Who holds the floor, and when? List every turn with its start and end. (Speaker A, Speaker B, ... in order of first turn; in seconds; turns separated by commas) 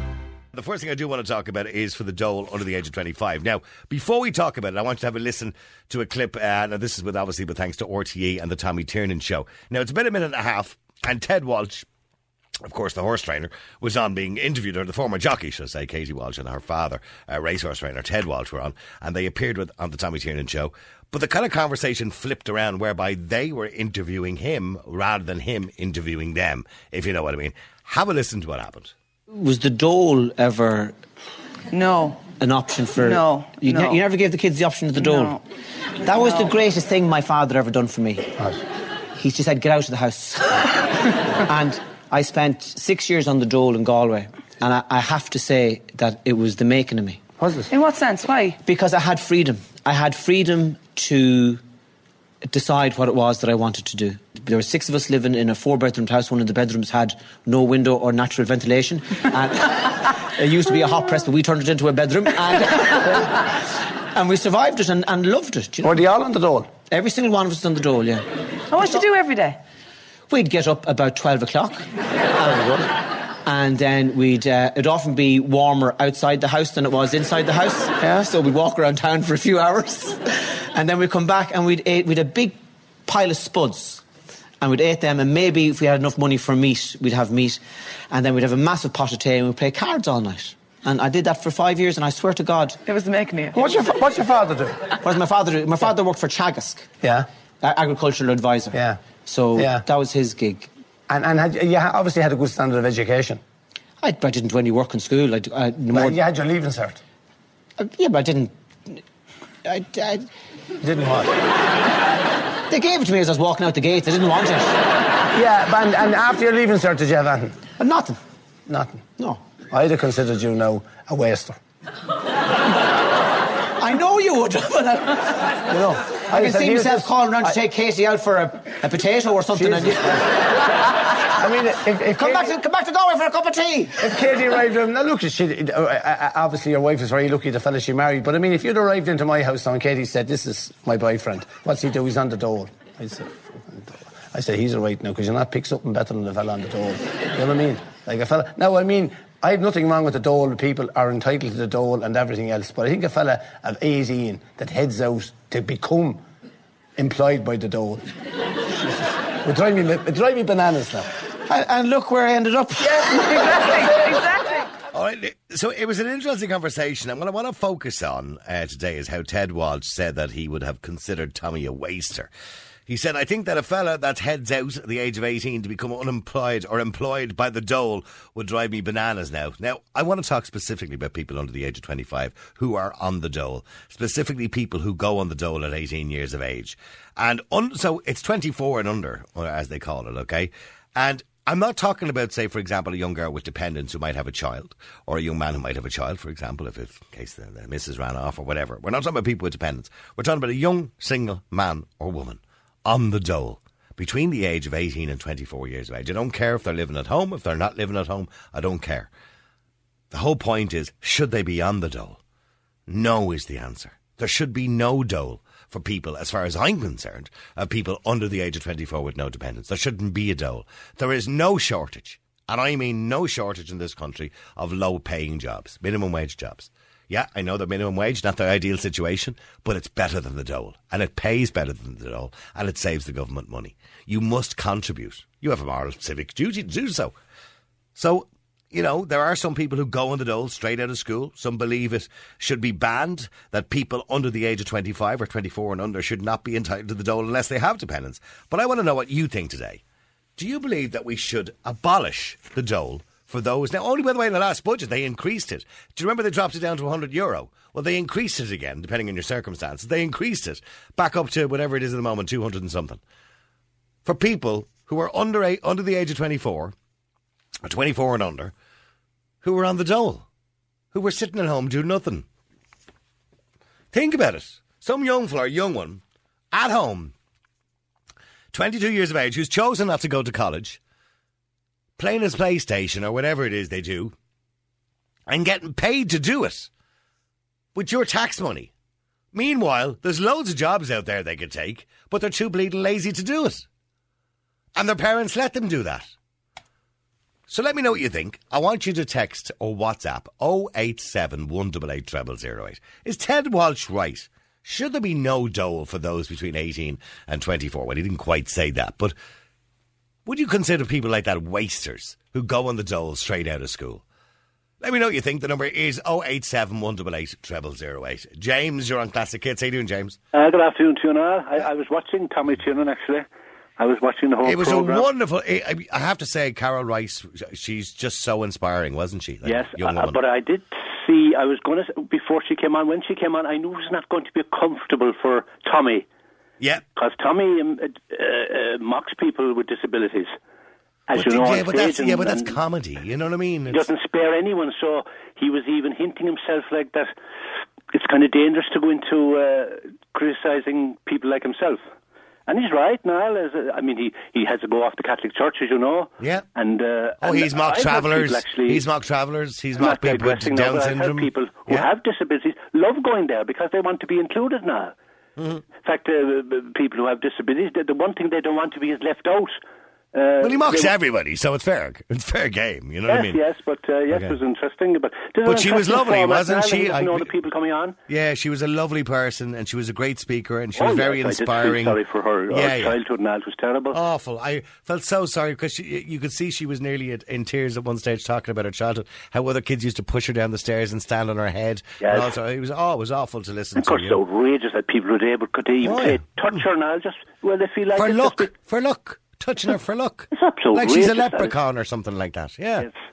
Speaker A: 0.5-11.9, Speaker A: 12.6-28.9, Speaker B: 29.3-31.0, Speaker C: 31.7-32.3, Speaker B: 32.4-35.4, Speaker C: 32.9-34.0, Speaker C: 35.0-35.4, Speaker B: 36.0-38.4, Speaker C: 36.2-36.5, Speaker B: 39.2-40.8, Speaker B: 41.5-47.2, Speaker D: 47.4-47.7, Speaker C: 47.7-48.6, Speaker B: 48.6-51.6, Speaker B: 52.5-63.4, Speaker B: 64.1-66.0, Speaker D: 65.8-66.8, Speaker B: 66.9-68.3, Speaker C: 68.7-69.6, Speaker B: 68.8-69.0, Speaker B: 70.3-71.9, Speaker D: 72.4-72.9, Speaker B: 73.5-80.2, Speaker B: 80.7-84.0, Speaker B: 84.6-87.6, Speaker B: 88.1-92.8, Speaker C: 92.9-93.9, Speaker D: 93.6-95.0, Speaker B: 95.0-96.9, Speaker D: 97.0-97.3, Speaker B: 97.6-100.7, Speaker D: 98.7-99.0, Speaker D: 99.5-99.8, Speaker D: 101.1-103.4, Speaker B: 104.0-106.2, Speaker D: 105.9-107.0, Speaker B: 107.8-109.0, Speaker B: 109.7-110.3, Speaker D: 110.8-111.3, Speaker B: 112.7-114.8, Speaker D: 115.3-117.6, Speaker B: 117.8-118.2, Speaker D: 118.7-119.1, Speaker D: 119.6-121.6, Speaker B: 123.8-125.5, Speaker D: 125.7-127.6, Speaker B: 126.3-130.4, Speaker D: 129.6-130.3, Speaker D: 131.4-132.6, Speaker B: 132.1-134.0, Speaker D: 134.0-156.2, Speaker D: 157.0-158.1, Speaker D: 159.4-161.2, Speaker B: 161.5-163.9, Speaker C: 162.9-164.6, Speaker A: 164.9-172.3, Speaker A: 172.9-209.1, Speaker A: 210.1-212.2, Speaker A: 212.9-237.2, Speaker A: 237.9-249.8, Speaker A: 250.4-263.0, Speaker A: 264.1-266.8, Speaker A: 267.6-268.5, Speaker A: 269.4-270.3, Speaker A: 270.9-272.3, Speaker A: 273.9-277.1, Speaker A: 278.5-280.8, Speaker A: 282.0-284.1, Speaker A: 285.3-286.7, Speaker A: 287.8-288.7, Speaker A: 289.3-293.7, Speaker A: 294.8-296.1, Speaker A: 297.5-309.1, Speaker A: 310.3-314.0, Speaker A: 314.8-320.2, Speaker E: 320.3-323.3, Speaker E: 323.8-325.1, Speaker A: 324.4-330.2, Speaker E: 329.4-336.1, Speaker E: 337.0-340.3, Speaker E: 341.1-342.6, Speaker A: 341.1-343.9, Speaker E: 343.7-347.1, Speaker E: 347.9-351.8, Speaker E: 352.5-358.8, Speaker A: 356.2-356.4, Speaker A: 357.2-361.9, Speaker E: 359.8-364.9, Speaker A: 365.4-365.6, Speaker E: 365.8-369.6, Speaker E: 370.1-370.9, Speaker A: 370.4-373.4, Speaker E: 373.1-378.0, Speaker A: 374.1-374.4, Speaker A: 375.4-377.3, Speaker A: 378.1-382.0, Speaker E: 380.8-384.0, Speaker A: 382.5-383.0, Speaker A: 383.9-394.2, Speaker E: 392.0-392.4, Speaker E: 393.8-398.5, Speaker A: 395.8-396.2, Speaker A: 397.9-402.9, Speaker E: 400.3-401.6